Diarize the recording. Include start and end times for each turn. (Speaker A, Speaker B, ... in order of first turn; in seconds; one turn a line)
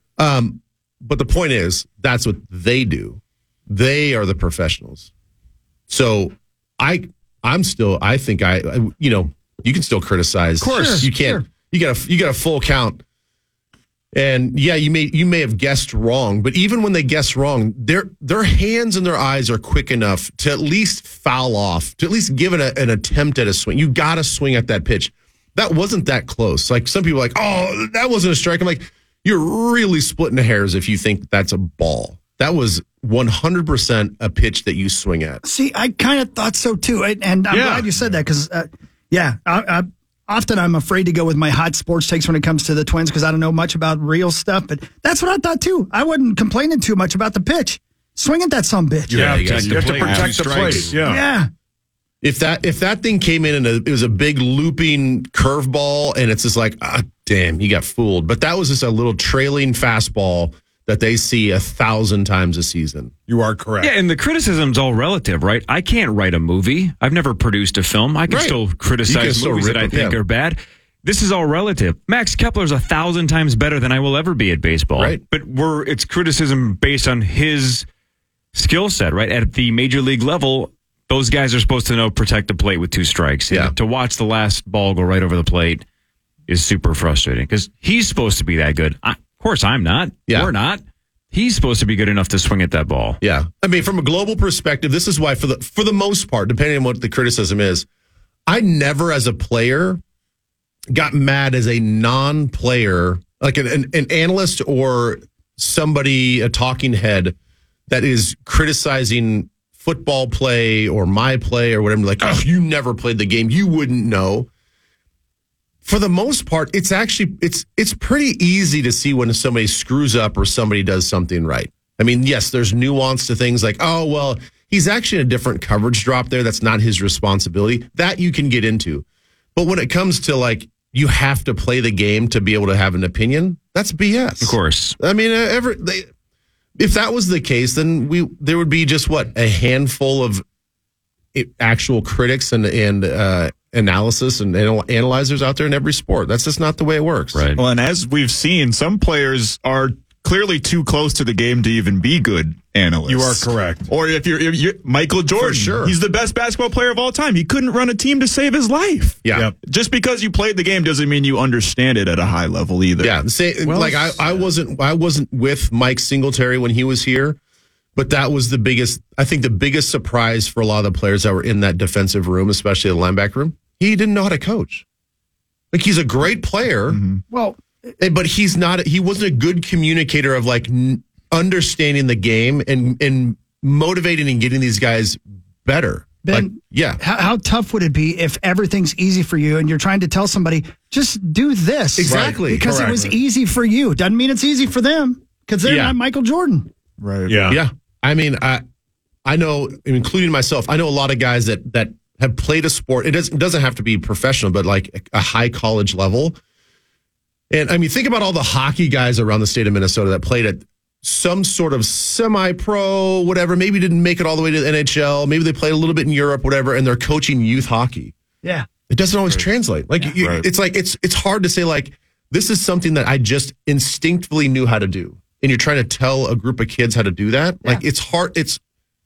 Speaker A: 0.2-5.1
Speaker A: 5.9-13.0
Speaker B: 10.6-11.4
Speaker A: 14.1-35.4
Speaker B: 35.4-49.2
Speaker C: 37.5-37.9
Speaker A: 49.1-49.8
Speaker C: 49.1-51.2
Speaker D: 49.2-51.0
Speaker E: 49.7-50.8
Speaker B: 51.0-51.5
Speaker A: 52.2-63.1
Speaker C: 63.3-63.9
Speaker D: 63.8-77.8
Speaker A: 68.3-70.2
Speaker A: 75.0-75.2
Speaker D: 78.5-85.8
Speaker D: 86.5-93.2
Speaker A: 93.2-97.9
Speaker A: 98.5-100.0
Speaker A: 100.9-107.3
Speaker A: 107.9-114.5
Speaker A: 115.8-129.1
Speaker A: 129.6-136.1
Speaker D: 134.4-135.0
Speaker A: 136.8-140.4
Speaker A: 141.3-147.5
Speaker D: 147.3-147.6
Speaker E: 147.6-163.2
Speaker C: 153.1-153.9
Speaker A: 155.4-155.9
Speaker A: 159.2-159.5
Speaker A: 163.0-167.4
Speaker C: 163.7-164.4
Speaker A: 168.0-174.8
Speaker A: 175.7-177.0
Speaker E: 176.9-177.2
Speaker B: 177.3-177.9
Speaker A: 178.0-187.0
Speaker B: 186.2-196.7
Speaker A: 192.0-192.8
Speaker C: 192.6-193.1
Speaker A: 195.7-195.9
Speaker E: 197.0-197.4
Speaker C: 197.3-197.6
Speaker A: 197.5-198.6
Speaker A: 199.2-206.4
Speaker A: 207.5-218.1
Speaker A: 218.9-228.6